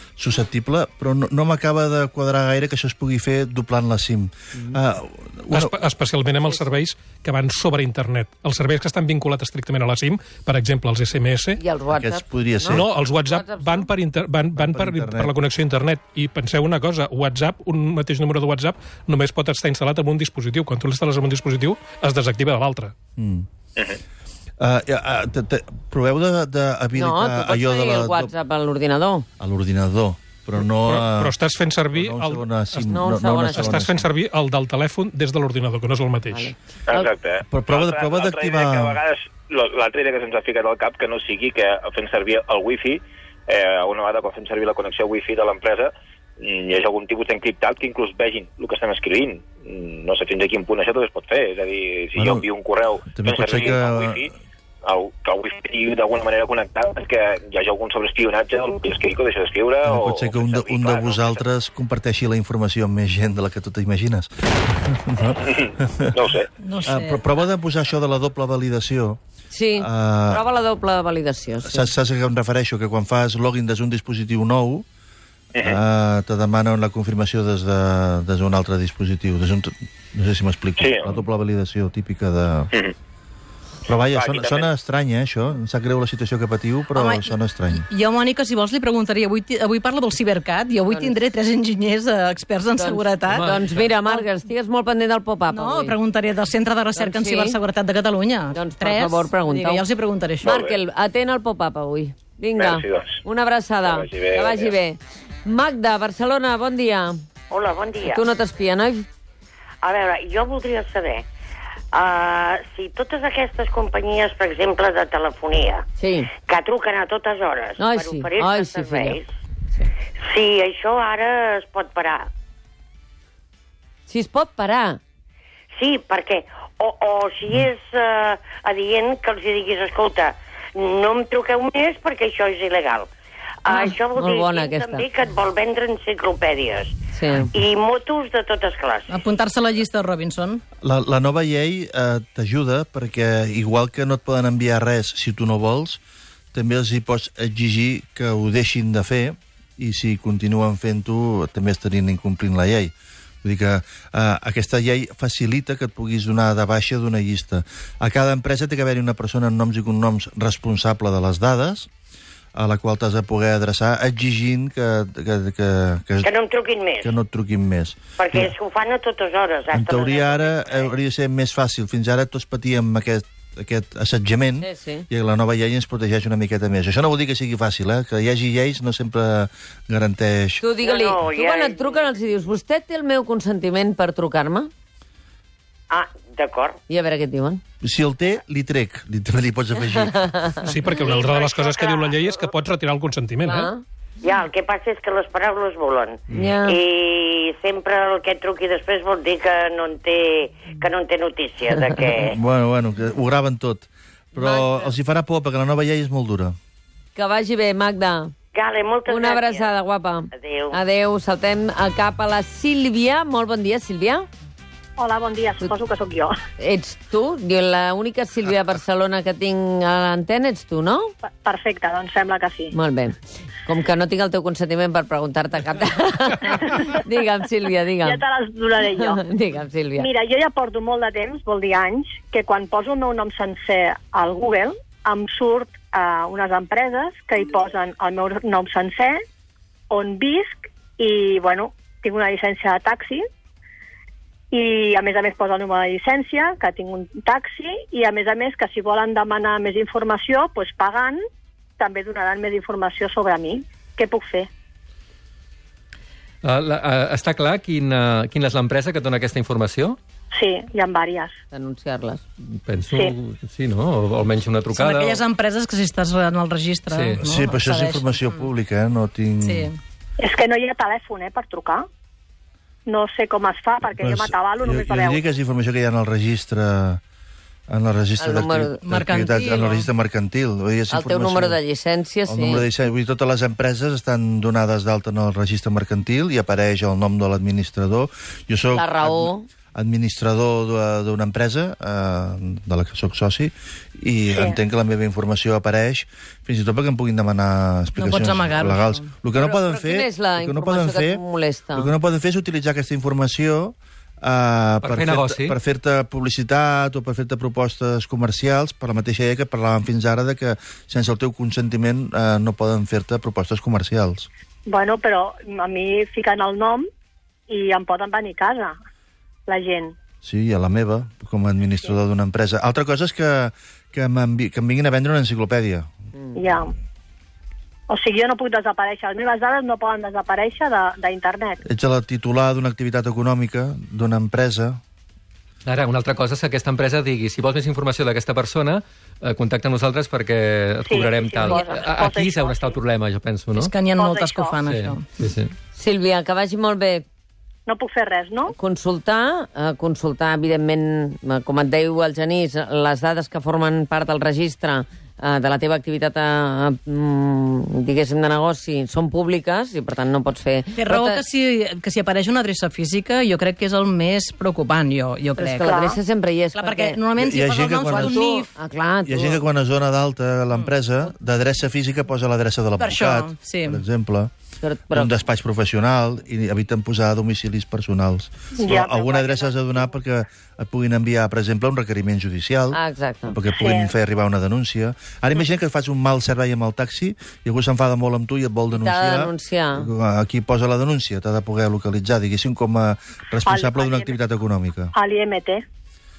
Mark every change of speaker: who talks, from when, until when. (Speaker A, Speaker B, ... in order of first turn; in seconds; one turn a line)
Speaker A: 0.2-5.7
Speaker B: 5.5-11.6
Speaker C: 11.6-13.9
Speaker A: 11.9-12.8
Speaker B: 12.7-22.9
Speaker A: 14.6-15.3
Speaker A: 23.2-23.5
Speaker A: 24.6-28.3
Speaker C: 26.9-29.3
Speaker A: 29.4-31.3
Speaker B: 30.8-36.5
Speaker A: 31.9-34.1
Speaker C: 32.9-33.8
Speaker C: 36.3-37.1
Speaker D: 36.9-54.3
Speaker A: 37.5-39.0
Speaker A: 52.1-52.5
Speaker A: 53.1-54.3
Speaker D: 54.8-61.4
Speaker A: 59.8-66.2
Speaker D: 65.4-66.5
Speaker E: 66.6-67.2
Speaker A: 66.8-69.2
Speaker C: 69.5-71.9
Speaker A: 69.8-70.4
Speaker A: 71.6-74.8
Speaker A: 75.6-82.7
Speaker D: 80.8-81.1
Speaker A: 83.9-87.8
Speaker D: 84.1-84.7
Speaker E: 86.9-94.2
Speaker C: 90.9-91.2
Speaker C: 92.8-96.0
Speaker F: 93.4-93.9
Speaker E: 95.5-100.5
Speaker C: 96.9-97.6
Speaker C: 98.5-99.8
Speaker C: 100.4-107.2
Speaker D: 100.4-100.8
Speaker D: 102.5-103.2
Speaker D: 103.8-104.7
Speaker G: 107.5-108.2
Speaker C: 108.0-109.1
Speaker G: 109.8-111.2
Speaker G: 111.9-119.3
Speaker C: 116.0-116.3
Speaker C: 117.8-119.2
Speaker G: 120.2-122.3
Speaker C: 124.1-125.0
Speaker G: 125.7-133.1
Speaker G: 133.6-137.0
Speaker C: 133.7-135.0
Speaker C: 137.1-137.5
Speaker G: 137.5-139.2
Speaker E: 139.1-140.6
Speaker A: 140.8-146.0
Speaker A: 146.5-152.9
Speaker A: 153.4-161.9
Speaker A: 162.5-166.3
Speaker G: 166.2-167.1
Speaker A: 167.0-168.5
Speaker G: 168.2-170.9
Speaker A: 169.7-180.6
Speaker C: 174.6-175.1
Speaker C: 180.6-184.7
Speaker G: 180.8-182.1
Speaker G: 185.9-186.8
Speaker C: 186.9-187.6
Speaker A: 187.8-190.3
Speaker C: 190.1-190.7
Speaker B: 190.6-193.7
Speaker G: 191.0-192.5
Speaker C: 193.4-193.8
Speaker G: 194.2-202.4
Speaker C: 196.3-196.8
Speaker A: 202.1-206.6
Speaker C: 204.4-204.6
Speaker C: 207.2-208.3
Speaker G: 208.5-209.7
Speaker C: 209.1-214.3
Speaker G: 210.3-210.8
Speaker H: 215.0-216.3
Speaker C: 216.6-221.1
Speaker H: 221.4-222.7
Speaker C: 222.7-228.2
Speaker H: 228.0-229.2
Speaker C: 228.9-230.1
Speaker H: 230.0-239.2
Speaker H: 239.9-243.2
Speaker H: 244.5-251.2
Speaker H: 251.8-254.5
Speaker F: 256.4-260.0
Speaker H: 260.3-261.3
Speaker C: 261.5-262.2
Speaker F: 262.4-265.2
Speaker E: 264.7-268.5
Speaker F: 266.9-267.2
Speaker A: 267.1-269.7
Speaker E: 269.4-269.8
Speaker H: 270.2-271.9
Speaker H: 272.9-275.2
Speaker A: 274.0-277.0
Speaker A: 277.7-281.6
Speaker C: 278.2-278.8
Speaker E: 278.8-279.9
Speaker C: 280.9-282.6
Speaker A: 282.3-301.2
Speaker C: 288.7-289.5
Speaker H: 294.3-294.6
Speaker E: 297.9-299.1
Speaker C: 299.3-301.9
Speaker A: 301.7-314.3
Speaker F: 304.8-305.6
Speaker H: 314.7-316.9
Speaker H: 317.5-318.8
Speaker H: 319.5-319.9
Speaker A: 320.2-325.9
Speaker H: 326.3-326.7
Speaker H: 327.9-331.6
Speaker A: 331.6-334.8
Speaker F: 335.6-343.8
Speaker H: 340.9-342.8
Speaker E: 343.5-345.1
Speaker H: 343.9-344.6
Speaker F: 344.6-345.5
Speaker C: 345.7-347.0
Speaker H: 347.7-348.5
Speaker C: 348.5-361.2
Speaker E: 360.8-365.8
Speaker C: 365.4-367.0
Speaker H: 365.6-366.0
Speaker E: 366.5-368.5
Speaker A: 367.2-368.2
Speaker C: 367.8-369.4
Speaker A: 369.1-374.3
Speaker E: 372.8-373.8
Speaker C: 374.6-375.1
Speaker A: 374.9-394.9
Speaker H: 378.6-379.5
Speaker C: 382.7-383.4
Speaker H: 383.5-383.9
Speaker C: 388.7-389.9
Speaker H: 393.5-394.1
Speaker H: 394.9-395.6